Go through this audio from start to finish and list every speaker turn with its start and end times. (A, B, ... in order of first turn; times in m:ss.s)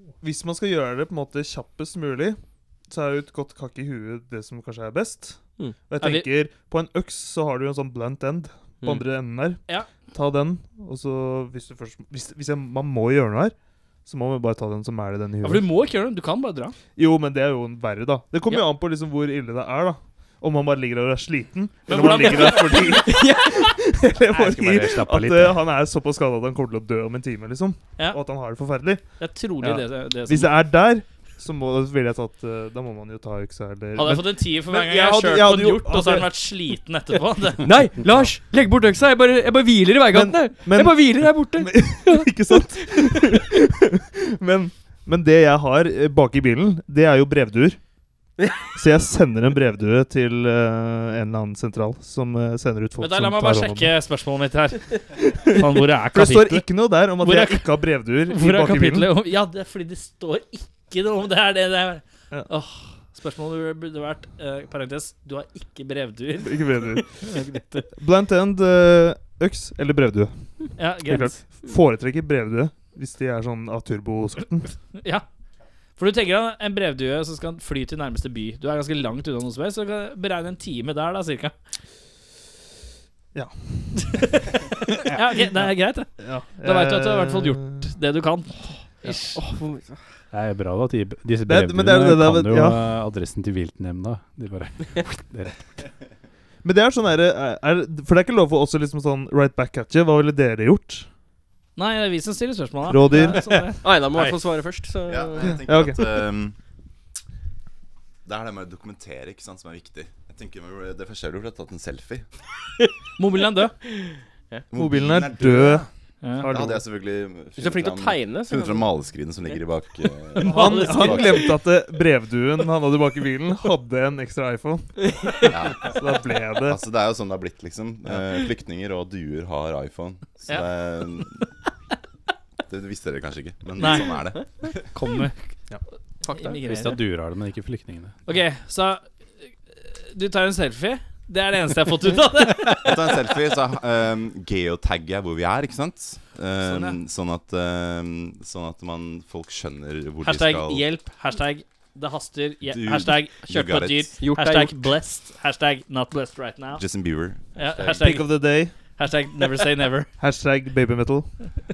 0:00.2-0:15.6 A
0:06.0-0:06.3 B
0:15.4-0:16.8 B
0:17.0-0:29.1 A
0:21.9-0:23.2 B
0:24.3-0:25.6 C
0:29.2-0:30.6 B
0:29.6-0:36.3 A
0:34.0-0:37.6 B
0:37.6-0:42.3 D
0:38.0-0:38.3 A
0:40.1-0:47.8 A
0:42.9-0:43.2 D
0:48.7-0:53.9 A
0:53.0-1:07.8 B
0:55.2-0:59.1 A
1:06.4-1:07.2 A
1:08.0-1:14.7 A
1:10.8-1:11.4 B
1:15.0-1:15.2 B
1:16.0-1:21.5 B
1:23.3-1:24.3 A
1:24.0-1:29.4 B
1:26.2-1:27.9 A
1:29.4-1:30.0 D
1:30.3-1:35.6 C
1:31.4-1:32.8 A
1:36.6-1:41.1 A
1:41.8-1:43.8 B
1:42.9-1:43.7 A
1:43.8-1:45.6 D
1:45.1-1:46.6 E
1:45.4-1:46.0 A
1:48.2-1:52.3 E
1:53.2-1:53.8 B
1:54.0-1:54.6 D
1:54.7-1:55.9 E
1:54.7-1:55.8 A
1:56.2-1:56.5 B
1:56.4-1:56.8 A
1:56.4-2:01.6 E
1:57.6-1:59.6 D
2:00.4-2:01.4 B
2:00.4-2:06.8 A
2:05.2-2:05.5 D
2:05.5-2:11.4 E
2:12.7-2:14.9 E
2:13.8-2:14.1 B
2:14.9-2:15.5 B
2:16.2-2:16.6 D
2:16.3-2:17.0 B
2:16.6-2:18.2 C
2:18.3-2:19.0 B
2:19.7-2:23.1 B
2:22.8-2:30.9 E
2:26.6-2:27.0 B
2:30.2-2:36.9 B
2:32.7-2:34.1 E
2:34.2-2:34.8 D
2:36.7-2:38.3 E
2:37.5-2:40.1 B
2:38.0-2:38.7 A
2:40.2-2:41.4 A